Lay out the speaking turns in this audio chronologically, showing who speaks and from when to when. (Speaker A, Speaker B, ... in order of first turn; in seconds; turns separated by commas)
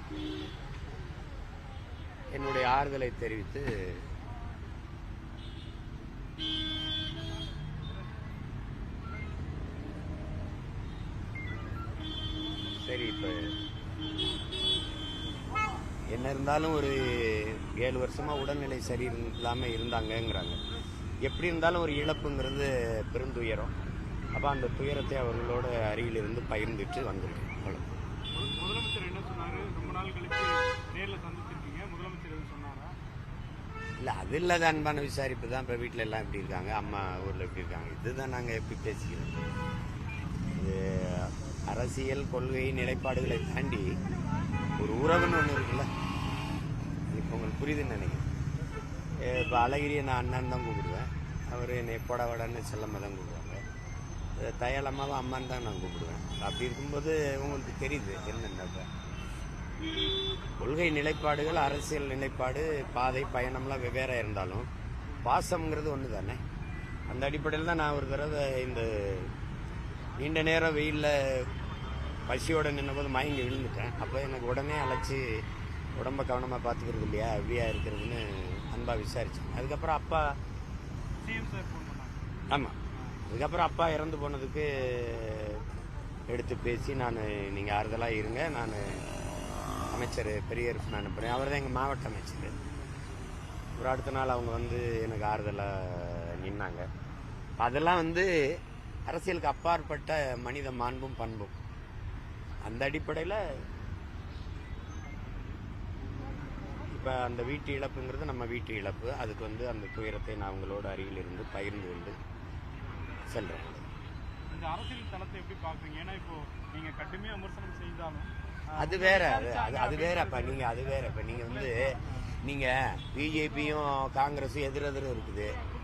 Speaker A: 2.3-4.1, Speaker A: 12.8-13.5, Speaker A: 16.1-20.6, Speaker A: 21.2-23.7, Speaker A: 24.3-28.0, Speaker B: 28.3-33.0, Speaker A: 34.0-39.6, Speaker A: 40.5-44.0, Speaker A: 44.8-45.9, Speaker A: 47.1-48.2, Speaker A: 49.2-53.6, Speaker A: 54.4-58.9, Speaker A: 60.6-64.7, Speaker A: 65.2-66.4, Speaker A: 67.1-69.3, Speaker A: 70.2-71.5, Speaker A: 72.2-75.2, Speaker A: 75.9-80.3, Speaker B: 81.2-82.2, Speaker A: 82.5-82.8, Speaker A: 83.3-85.6, Speaker A: 86.3-89.0, Speaker A: 89.9-92.5, Speaker A: 93.8-96.9, Speaker A: 97.6-101.5, Speaker A: 102.7-103.4, Speaker B: 105.0-105.6, Speaker A: 106.9-112.2, Speaker A: 113.3-113.8, Speaker B: 114.5-120.8, Speaker A: 118.8-125.5